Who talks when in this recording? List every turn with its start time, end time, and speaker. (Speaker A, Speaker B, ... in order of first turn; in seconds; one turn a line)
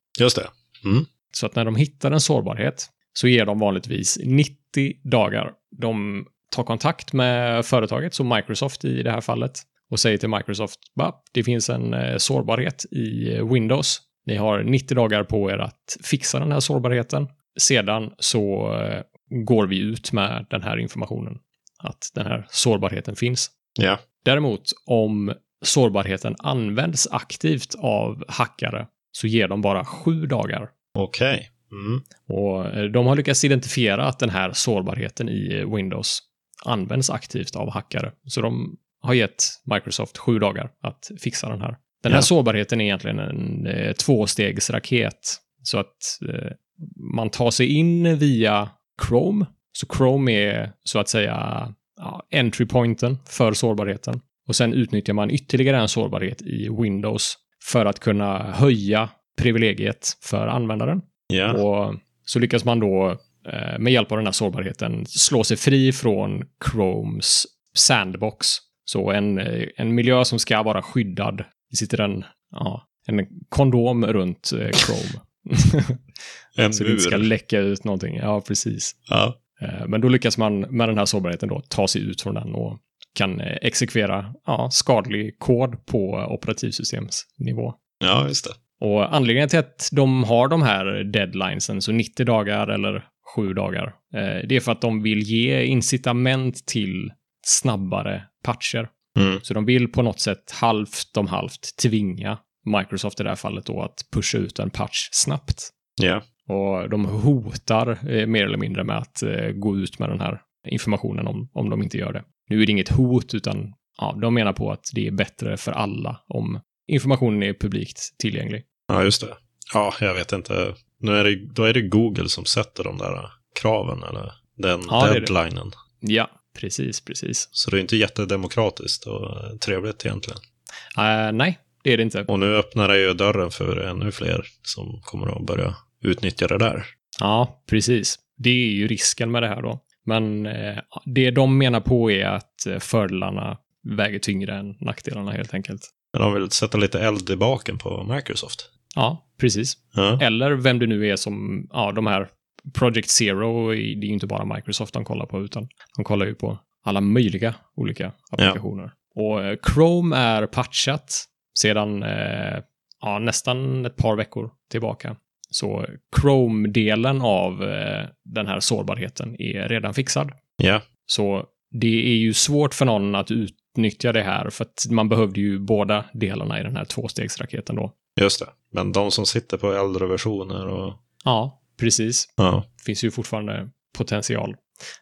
Speaker A: 0.2-1.1
Speaker B: 1.3-23.5
Speaker B: 24.2-30.7
Speaker A: 30.9-32.0
Speaker B: 32.3-76.0
Speaker A: 61.3-61.6
Speaker A: 76.6-77.3
Speaker B: 76.7-79.0
Speaker A: 79.1-79.4
Speaker B: 79.6-87.8
Speaker A: 88.0-88.6
Speaker B: 88.8-98.9
Speaker A: 99.2-99.4
Speaker B: 99.4-105.7
Speaker A: 106.0-106.2
Speaker B: 106.5-118.7
Speaker A: 118.9-125.7
Speaker B: 124.9-125.3
Speaker B: 126.0-127.5
Speaker A: 127.5-130.4
Speaker B: 131.0-132.3
Speaker A: 132.3-136.9
Speaker B: 137.2-145.9
Speaker A: 146.1-148.7
Speaker B: 148.9-170.3
Speaker A: 149.9-150.2
Speaker A: 170.6-170.8
Speaker B: 171.1-177.9
Speaker A: 178.2-181.0
Speaker B: 181.2-184.6
Speaker A: 182.4-182.7